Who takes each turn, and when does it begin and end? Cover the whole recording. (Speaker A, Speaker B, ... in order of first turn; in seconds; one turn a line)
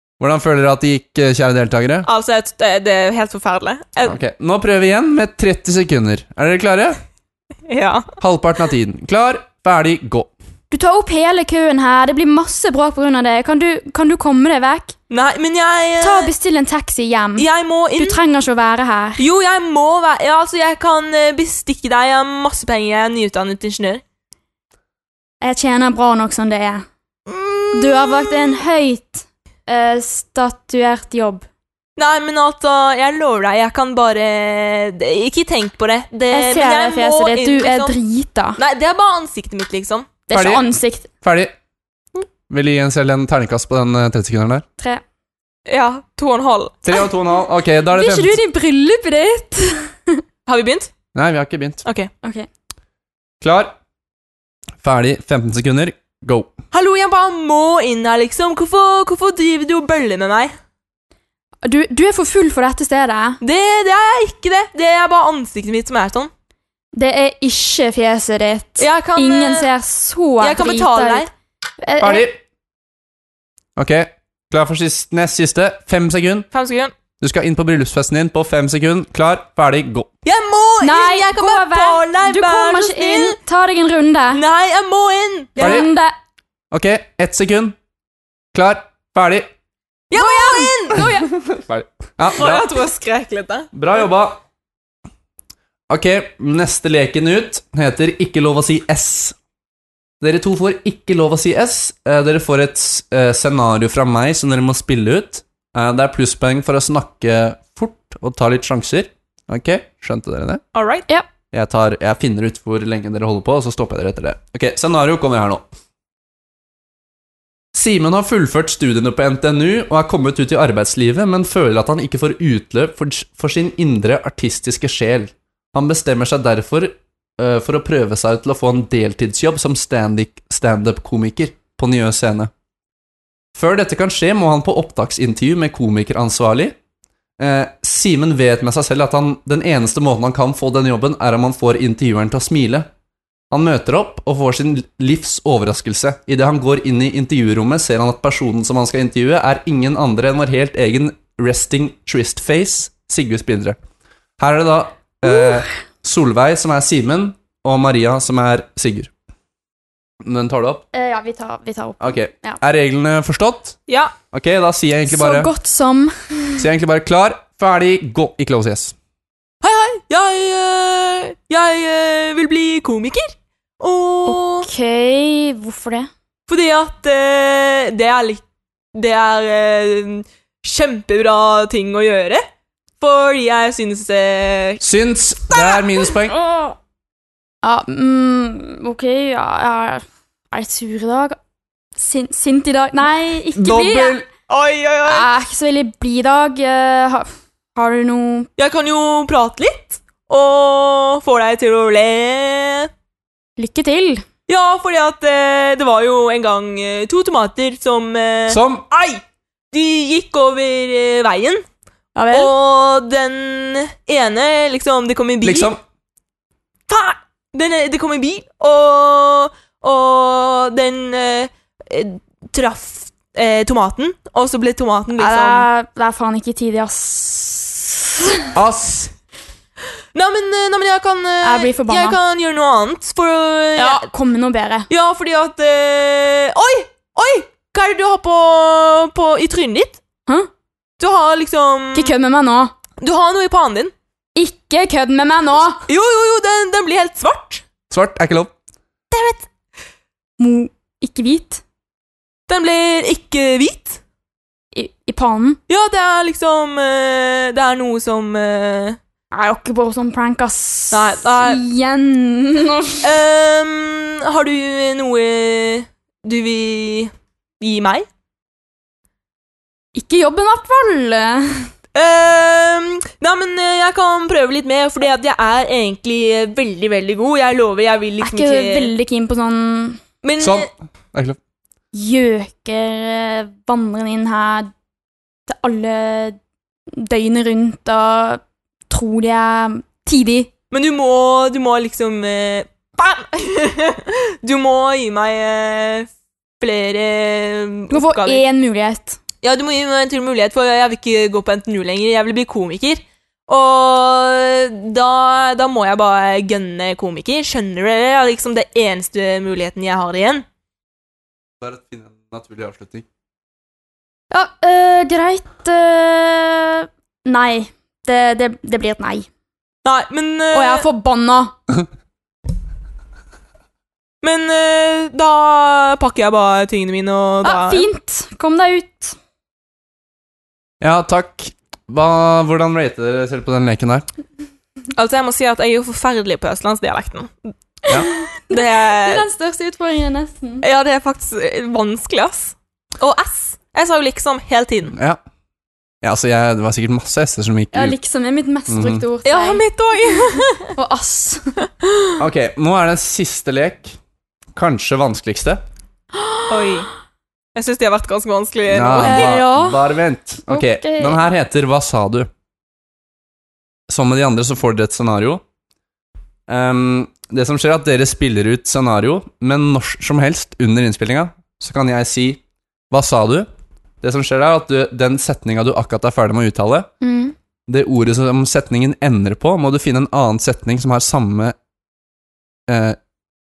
Speaker A: 0.2-2.1
Speaker B: 2.1-4.2
Speaker A: 4.0-7.0
Speaker B: 7.7-8.1
Speaker A: 8.2-10.3
Speaker C: 10.7-14.9
Speaker B: 15.1-16.3
Speaker C: 16.0-17.4
Speaker B: 17.4-18.2
Speaker C: 18.0-19.2
Speaker B: 19.2-24.0
Speaker C: 25.4-26.9
Speaker B: 27.3-28.6
Speaker C: 27.7-31.4
Speaker B: 32.0-37.9
Speaker C: 36.3-38.6
Speaker B: 38.6-40.1
Speaker C: 40.3-41.1
Speaker A: 40.3-40.6
Speaker A: 41.2-41.5
Speaker A: 42.5-44.6
Speaker C: 44.8-45.0
Speaker B: 45.7-46.9
Speaker A: 46.9-48.4
Speaker C: 47.9-50.2
Speaker B: 50.5-50.9
Speaker A: 51.1-51.8
Speaker B: 51.9-52.1
Speaker C: 52.2-52.5
Speaker A: 53.4-53.7
Speaker A: 54.8-56.5
Speaker B: 56.7-60.5
Speaker C: 61.6-63.4
Speaker B: 63.4-66.3
Speaker C: 66.9-71.3
Speaker B: 68.8-69.7
Speaker B: 70.4-71.3
Speaker C: 71.8-72.3
Speaker A: 72.0-72.4
Speaker A: 73.8-76.5
Speaker B: 76.5-76.9
Speaker A: 77.2-80.1
Speaker B: 80.2-83.4
Speaker C: 80.8-84.4
Speaker B: 84.3-85.9
Speaker C: 85.6-86.2
Speaker A: 85.6-85.9
Speaker A: 86.7-87.8
Speaker A: 88.5-89.5
Speaker B: 90.1-91.3
Speaker C: 90.1-91.3
Speaker A: 91.5-92.7
Speaker B: 92.3-93.7
Speaker A: 93.7-94.4
Speaker A: 95.9-99.4
Speaker A: 100.2-110.6
Speaker B: 110.7-111.1
Speaker A: 111.5-115.6
Speaker A: 117.7-132.5
Speaker A: 133.6-136.8
Speaker A: 137.4-142.9
Speaker A: 143.5-153.8
Speaker A: 154.4-159.1
Speaker A: 160.2-160.8
Speaker C: 160.9-162.6
Speaker A: 162.0-163.8
Speaker B: 163.9-164.1
Speaker A: 164.3-165.5
Speaker C: 165.1-166.7
Speaker A: 166.6-168.9
Speaker B: 169.6-174.7
Speaker C: 174.2-176.1
Speaker B: 176.5-178.4
Speaker B: 178.9-182.4
Speaker B: 183.0-184.8
Speaker A: 184.8-186.3
Speaker B: 185.5-186.1
Speaker C: 187.6-191.4
Speaker C: 191.9-194.2
Speaker A: 193.6-194.2
Speaker B: 194.5-195.3
Speaker C: 195.1-198.5
Speaker B: 198.6-202.9
Speaker C: 203.6-204.2
Speaker B: 204.5-211.6
Speaker A: 208.5-208.9
Speaker C: 212.1-212.5
Speaker B: 212.3-215.7
Speaker A: 215.4-215.8
Speaker B: 216.9-225.7
Speaker C: 225.2-228.5
Speaker A: 228.6-229.1
Speaker B: 230.1-234.1
Speaker C: 231.4-232.2
Speaker C: 233.8-234.9
Speaker B: 234.9-240.0
Speaker B: 241.0-242.1
Speaker C: 241.9-242.7
Speaker B: 243.0-243.9
Speaker C: 244.3-245.8
Speaker B: 245.9-247.6
Speaker A: 247.9-248.5
Speaker B: 249.1-249.4
Speaker C: 250.4-251.6
Speaker B: 252.5-254.0
Speaker C: 254.7-255.6
Speaker B: 255.7-259.0
Speaker C: 259.3-263.0
Speaker B: 260.9-261.6
Speaker B: 263.0-268.1
Speaker C: 269.9-271.7
Speaker B: 271.9-278.9
Speaker C: 278.2-280.0
Speaker B: 280.2-280.7
Speaker A: 280.4-281.4
Speaker C: 281.9-284.7
Speaker C: 285.5-286.4
Speaker C: 286.9-290.5
Speaker B: 290.7-296.1
Speaker B: 296.6-298.4
Speaker C: 297.9-299.2
Speaker B: 299.4-310.4
Speaker A: 311.6-313.1
Speaker C: 314.3-319.3
Speaker B: 319.9-320.9
Speaker C: 320.5-321.5
Speaker B: 324.2-327.9
Speaker C: 327.4-329.1
Speaker A: 330.8-334.1
Speaker B: 334.9-337.3
Speaker C: 337.9-340.6
Speaker B: 338.5-339.2
Speaker B: 340.6-345.0
Speaker A: 344.9-345.2
Speaker A: 346.0-347.9
Speaker C: 347.7-349.6
Speaker A: 348.7-349.0
Speaker B: 349.2-350.7
Speaker C: 350.7-351.6
Speaker A: 352.2-353.9
Speaker A: 354.6-355.6
Speaker C: 356.2-356.8
Speaker B: 356.5-356.9
Speaker B: 357.6-359.4
Speaker A: 358.7-362.3
Speaker C: 359.0-359.8
Speaker C: 360.4-361.2
Speaker A: 363.9-365.4
Speaker A: 366.5-373.5
Speaker A: 374.0-376.9
Speaker C: 377.0-377.4
Speaker A: 377.7-381.6
Speaker A: 382.7-383.0